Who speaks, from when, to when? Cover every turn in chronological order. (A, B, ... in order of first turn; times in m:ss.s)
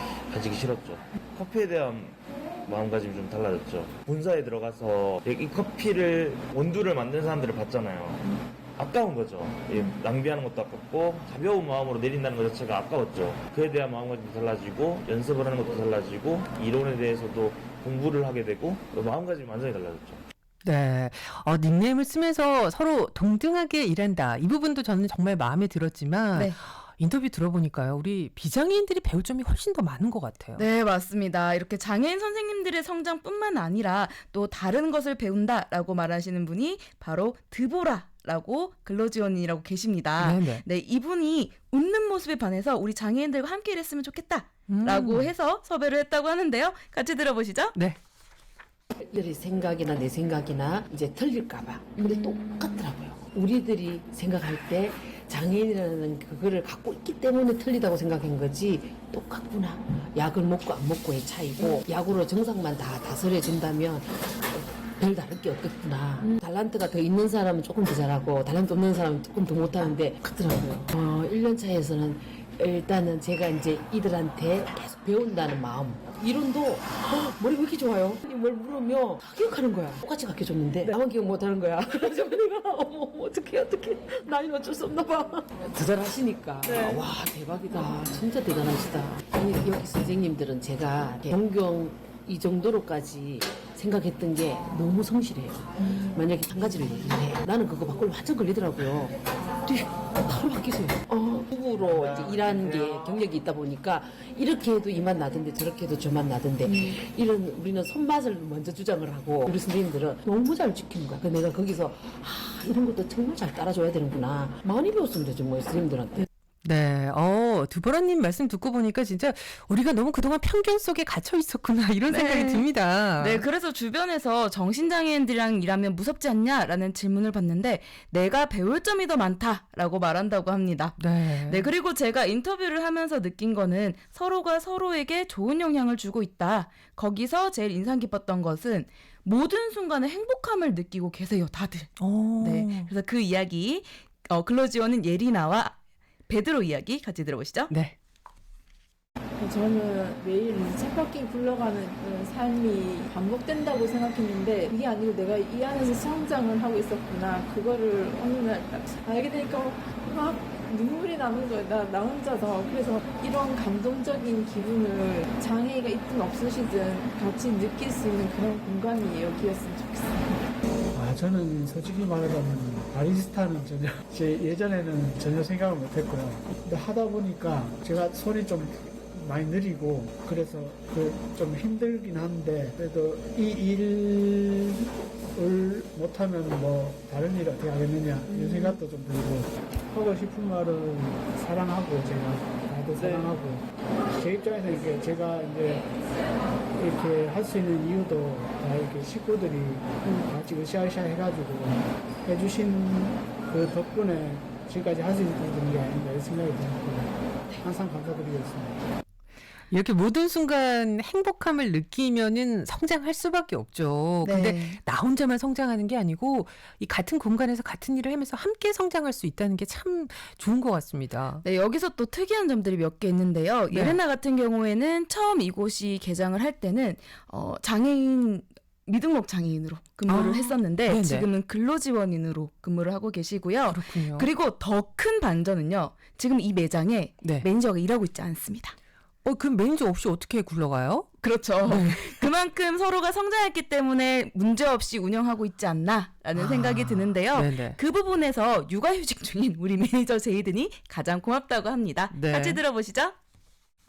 0:00.3-0:08.2 A
0:08.8-0:20.2 A
0:20.6-0:30.6 B
0:30.6-0:47.8 C
0:40.2-0:40.6 B
0:44.7-0:45.3 B
0:49.0-1:56.2 D
0:52.0-0:52.8 B
1:56.6-2:03.4 B
2:02.1-2:02.7 C
2:03.2-2:25.8 C
2:11.0-2:11.7 B
2:22.0-2:22.9 B
2:26.3-2:27.7 C
2:27.7-2:27.9 B
2:29.4-2:50.4 E
2:50.9-3:04.8 F
3:05.3-3:13.6 F
3:08.3-3:08.8 E
3:13.0-3:13.3 E
3:14.1-3:15.8 F
3:16.8-3:27.1 F
3:27.6-3:28.8 F
3:29.7-3:41.4 B
3:34.2-3:34.8 C
3:41.4-3:58.7 C
3:43.7-3:44.0 B
3:50.1-3:51.3 B
3:53.7-3:54.3 B
3:59.2-4:01.1 B
4:01.2-4:13.2 C
4:01.6-4:02.2 B
4:06.3-4:07.8 B
4:12.1-4:12.6 B